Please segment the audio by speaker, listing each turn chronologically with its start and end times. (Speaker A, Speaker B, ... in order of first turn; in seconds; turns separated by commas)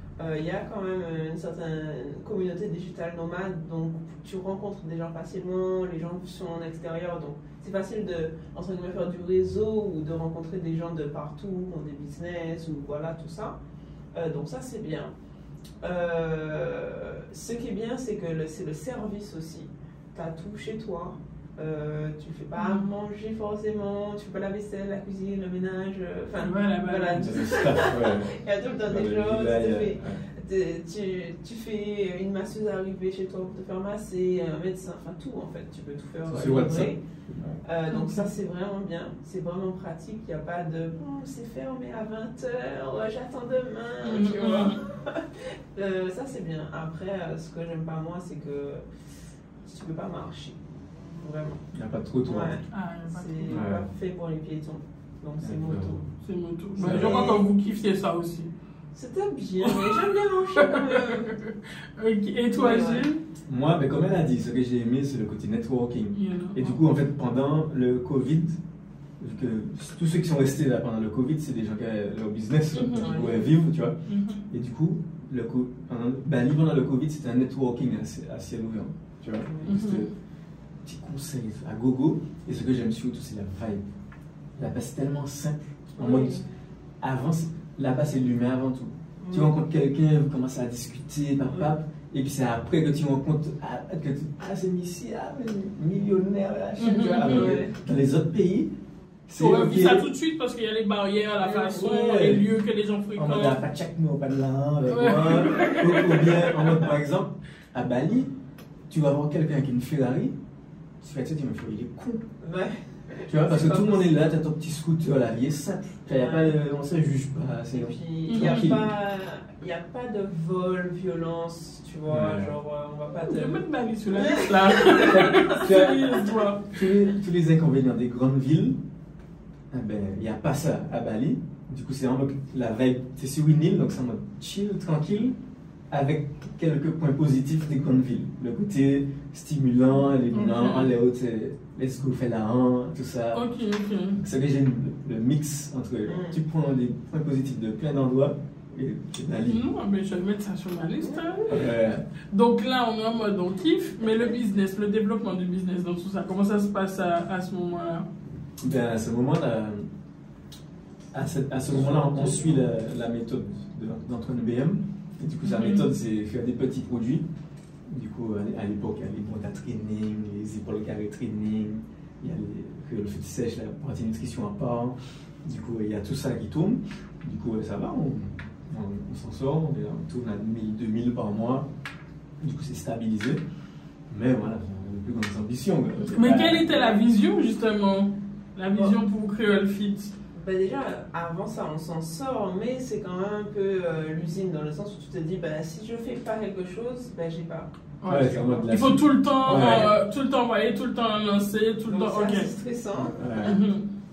Speaker A: 0.2-13.6, Speaker A: 14.2-15.1, Speaker A: 15.8-37.0, Speaker B: 22.6-22.9, Speaker B: 26.4-27.8, Speaker C: 27.2-30.2, Speaker C: 36.3-37.6, Speaker A: 37.6-48.8, Speaker B: 37.9-38.2, Speaker B: 44.0-44.8, Speaker A: 49.6-50.6, Speaker A: 51.2-51.6, Speaker C: 51.7-52.6, Speaker A: 52.2-56.0, Speaker B: 52.7-53.6, Speaker C: 53.5-53.9, Speaker C: 55.4-56.0, Speaker B: 56.2-58.5, Speaker C: 56.8-57.3, Speaker A: 56.8-57.5, Speaker A: 58.9-61.3, Speaker B: 59.6-59.9, Speaker B: 60.6-63.2, Speaker A: 62.5-63.1, Speaker C: 63.5-68.6, Speaker B: 66.2-66.8, Speaker C: 69.2-74.0, Speaker B: 72.7-73.3, Speaker A: 73.0-73.5, Speaker B: 74.1-74.5, Speaker C: 74.5-80.1, Speaker A: 79.5-79.8, Speaker B: 79.7-80.1, Speaker C: 80.8-83.9, Speaker C: 84.6-86.4, Speaker A: 86.0-86.5, Speaker C: 87.0-98.7, Speaker A: 89.2-89.5, Speaker B: 96.8-97.6, Speaker A: 97.2-97.7, Speaker C: 99.3-100.1, Speaker B: 99.4-103.6, Speaker A: 101.4-101.9, Speaker C: 101.8-102.5, Speaker C: 103.2-108.3, Speaker B: 104.9-106.4, Speaker C: 108.9-110.4, Speaker C: 111.0-112.2, Speaker A: 112.4-114.2, Speaker C: 113.3-118.9, Speaker A: 116.1-116.6, Speaker A: 117.7-123.6, Speaker B: 118.3-118.7, Speaker C: 122.1-122.5, Speaker B: 123.3-126.7, Speaker A: 124.1-125.4, Speaker C: 125.1-126.1, Speaker C: 126.7-128.8, Speaker C: 129.7-135.4, Speaker C: 135.9-143.4, Speaker B: 140.3-140.9, Speaker B: 143.3-144.2, Speaker C: 144.2-149.7, Speaker A: 146.1-146.4, Speaker B: 149.5-151.5, Speaker A: 151.1-151.4, Speaker C: 151.5-152.0, Speaker B: 152.3-158.1, Speaker C: 158.6-159.9, Speaker C: 161.1-167.3, Speaker A: 161.7-162.6, Speaker B: 165.4-165.9, Speaker C: 167.9-181.7, Speaker C: 182.4-183.4, Speaker C: 184.1-186.7, Speaker B: 186.1-190.1, Speaker A: 190.3-197.7, Speaker B: 198.0-202.5, Speaker C: 198.1-199.9, Speaker A: 201.9-203.2, Speaker C: 203.0-203.6, Speaker B: 203.4-203.8